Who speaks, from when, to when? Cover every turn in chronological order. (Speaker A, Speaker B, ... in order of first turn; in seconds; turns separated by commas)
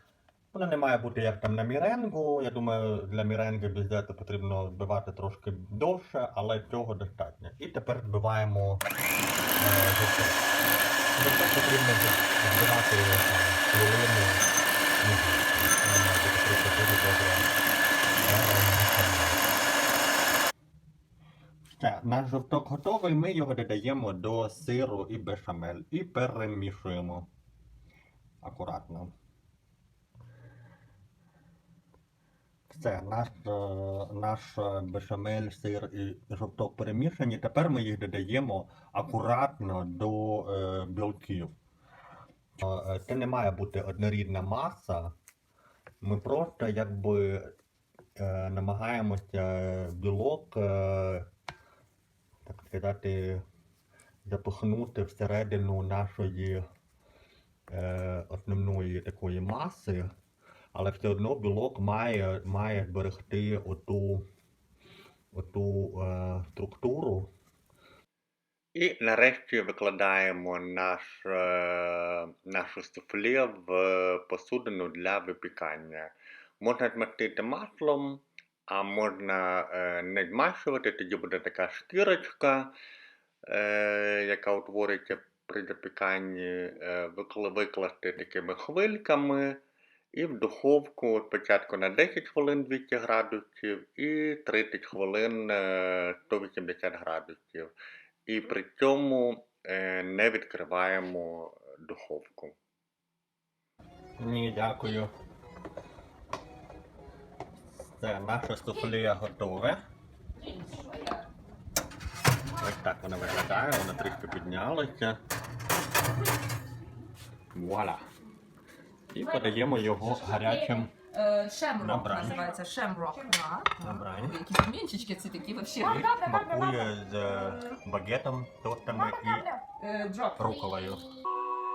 Speaker A: 0.5-8.8, Speaker A: 9.6-10.4, Speaker A: 11.2-14.4, Speaker A: 15.0-17.5, Speaker A: 18.3-19.5, Speaker A: 21.8-27.3, Speaker A: 28.4-29.1, Speaker A: 32.7-41.5, Speaker A: 42.6-45.1, Speaker A: 46.0-47.5, Speaker A: 48.2-51.3, Speaker A: 52.5-53.4, Speaker A: 54.2-56.6, Speaker A: 57.7-60.1, Speaker A: 60.7-64.2, Speaker A: 65.3-67.3, Speaker A: 68.8-82.7, Speaker A: 83.5-89.6, Speaker A: 90.1-97.7, Speaker A: 98.3-102.5, Speaker A: 104.2-105.1, Speaker A: 107.8-109.8, Speaker B: 110.4-111.2, Speaker A: 112.6-115.2, Speaker A: 117.5-118.0, Speaker A: 119.1-120.9, Speaker B: 121.0-126.9, Speaker A: 121.8-122.4, Speaker A: 123.8-124.4, Speaker A: 125.8-129.5, Speaker B: 129.0-130.4, Speaker A: 130.3-131.1